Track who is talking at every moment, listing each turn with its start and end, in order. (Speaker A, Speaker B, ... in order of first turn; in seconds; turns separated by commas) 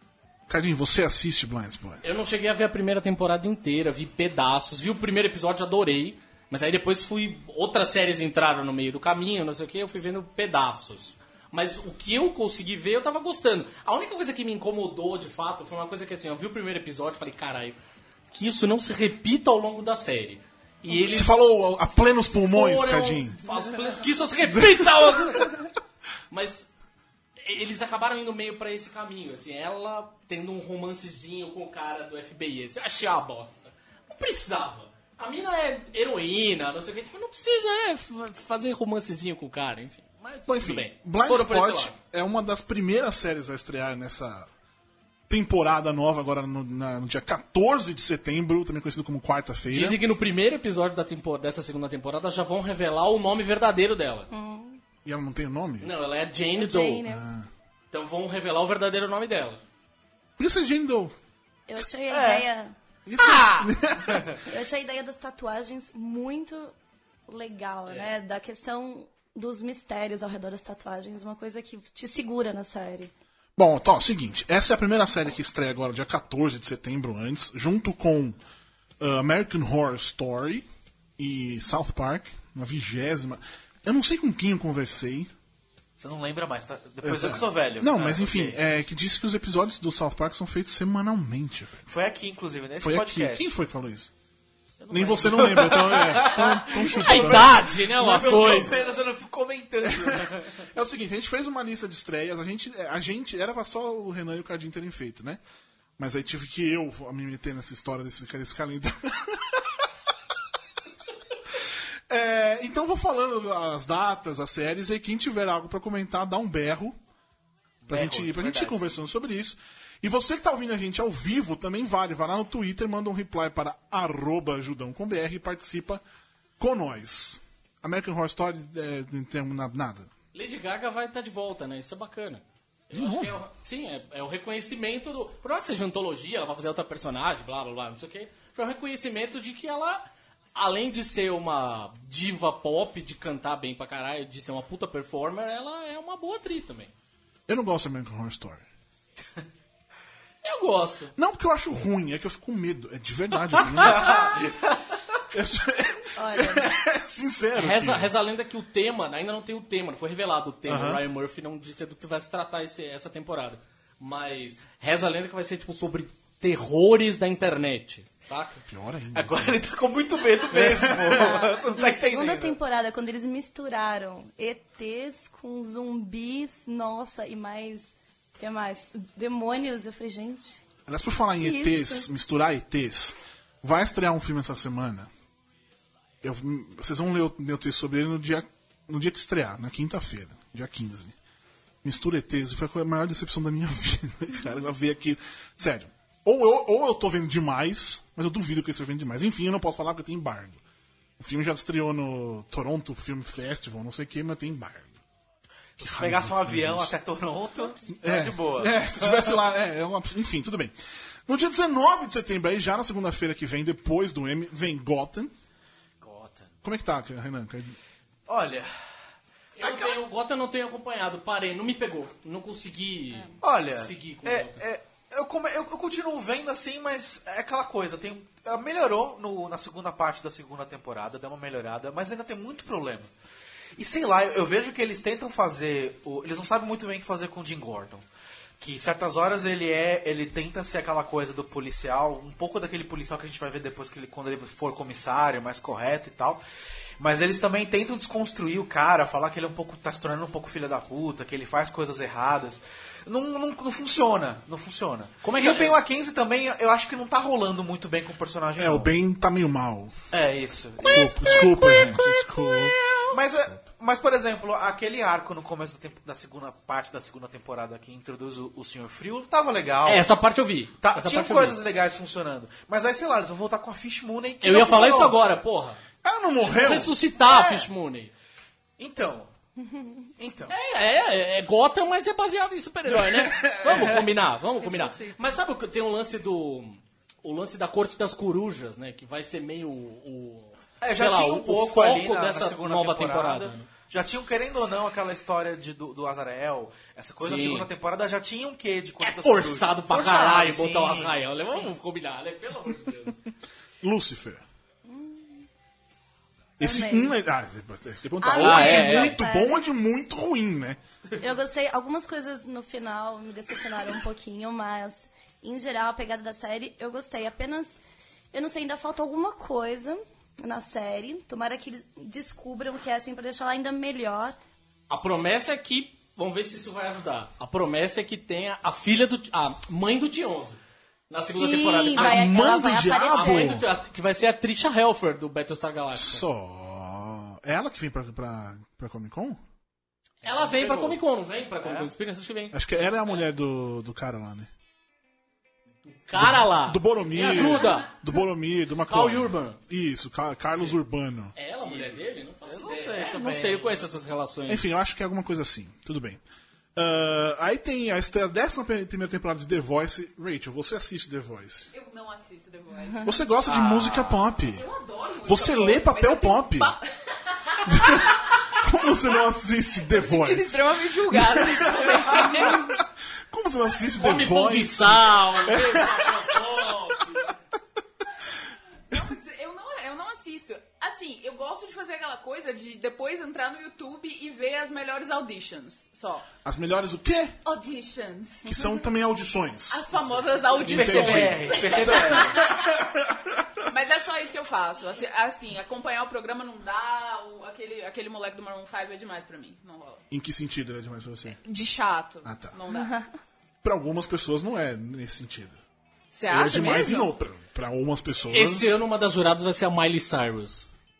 Speaker A: 0.5-2.0, Speaker B: 2.0-17.8, Speaker B: 18.3-21.5, Speaker A: 20.9-23.4, Speaker B: 22.3-25.6, Speaker A: 24.5-25.6, Speaker B: 26.3-26.7, Speaker B: 27.4-42.0, Speaker A: 40.5-44.5, Speaker A: 45.3-50.0, Speaker B: 49.7-54.3, Speaker C: 54.3-54.8, Speaker A: 55.0-55.9, Speaker B: 55.8-57.0, Speaker C: 56.5-57.3, Speaker A: 57.1-57.5, Speaker B: 57.9-59.6, Speaker A: 60.4-61.1, Speaker C: 61.7-62.7, Speaker D: 62.1-62.5, Speaker A: 63.0-64.3, Speaker D: 64.0-64.4, Speaker C: 64.4-66.7, Speaker C: 67.3-73.1, Speaker A: 73.5-78.4, Speaker A: 79.0-80.7, Speaker A: 81.2-85.3, Speaker D: 86.0-88.6, Speaker A: 87.0-91.8, Speaker D: 91.8-93.5, Speaker A: 92.8-94.1, Speaker D: 94.8-100.7, Speaker A: 94.9-97.7, Speaker B: 96.8-98.8, Speaker A: 99.8-105.4, Speaker A: 106.0-109.9, Speaker A: 111.5-117.0, Speaker D: 117.8-118.9, Speaker A: 117.9-126.0, Speaker A: 126.6-130.1, Speaker B: 130.3-146.9, Speaker A: 132.9-133.4, Speaker A: 147.5-148.6, Speaker B: 150.4-151.1, Speaker A: 151.2-154.5, Speaker D: 153.9-154.7, Speaker A: 155.3-158.1, Speaker C: 156.2-156.7, Speaker B: 157.6-168.6, Speaker A: 160.7-161.0, Speaker A: 168.7-169.6, Speaker D: 169.1-172.6, Speaker A: 170.5-171.4, Speaker C: 171.0-180.6, Speaker A: 180.8-185.1, Speaker C: 181.4-182.1, Speaker A: 186.2-191.1, Speaker A: 191.8-200.6, Speaker A: 201.2-204.9, Speaker D: 205.8-209.4, Speaker A: 205.8-206.9, Speaker A: 207.9-210.7, Speaker A: 211.2-215.3, Speaker D: 216.0-216.5, Speaker A: 216.6-217.8, Speaker D: 218.3-218.7, Speaker B: 219.6-224.6, Speaker D: 219.6-220.0, Speaker D: 223.4-233.1, Speaker D: 233.8-238.1, Speaker D: 238.6-246.4, Speaker D: 247.0-258.9, Speaker B: 255.2-255.8, Speaker A: 258.6-259.9, Speaker D: 260.1-261.9, Speaker A: 260.8-262.8, Speaker D: 263.1-270.1, Speaker B: 269.8-271.6, Speaker D: 270.8-275.2, Speaker B: 274.4-275.8, Speaker A: 276.0-276.9, Speaker B: 276.4-278.1, Speaker D: 277.2-277.7, Speaker D: 278.8-279.3, Speaker D: 280.2-280.5, Speaker B: 280.5-293.7, Speaker A: 282.9-283.9, Speaker C: 284.6-285.2, Speaker D: 290.8-301.7, Speaker B: 297.2-297.7, Speaker B: 299.0-303.2, Speaker A: 303.8-304.4, Speaker C: 304.9-305.4, Speaker A: 306.6-310.8, Speaker C: 306.6-307.1, Speaker C: 308.2-309.6, Speaker B: 308.4-309.2, Speaker C: 311.2-317.8, Speaker C: 318.3-324.4, Speaker B: 324.9-332.4, Speaker C: 331.4-333.6, Speaker A: 331.9-333.6, Speaker B: 333.1-336.2, Speaker A: 335.9-339.4, Speaker D: 340.2-341.0, Speaker B: 340.2-342.5, Speaker D: 341.6-341.9, Speaker A: 342.5-344.5, Speaker B: 345.9-347.9, Speaker A: 346.2-351.3, Speaker B: 348.9-349.6, Speaker B: 351.4-354.8, Speaker D: 351.6-353.8, Speaker A: 354.5-356.2, Speaker A: 356.8-361.7, Speaker E: 361.7-363.2, Speaker A: 363.0-364.6, Speaker D: 363.4-364.2, Speaker E: 364.5-368.6, Speaker A: 365.2-366.8, Speaker A: 367.6-376.6, Speaker E: 369.9-372.8, Speaker B: 374.0-377.3, Speaker E: 378.9-386.3, Speaker A: 386.4-387.4, Speaker E: 387.4-388.8, Speaker A: 388.4-393.5, Speaker E: 389.7-392.8, Speaker D: 390.6-392.4, Speaker E: 393.6-400.0, Speaker A: 400.1-401.4, Speaker E: 401.4-403.0, Speaker A: 402.2-402.6, Speaker C: 402.7-403.0, Speaker A: 403.6-405.6, Speaker E: 406.1-407.1, Speaker A: 406.3-408.7, Speaker B: 408.3-410.7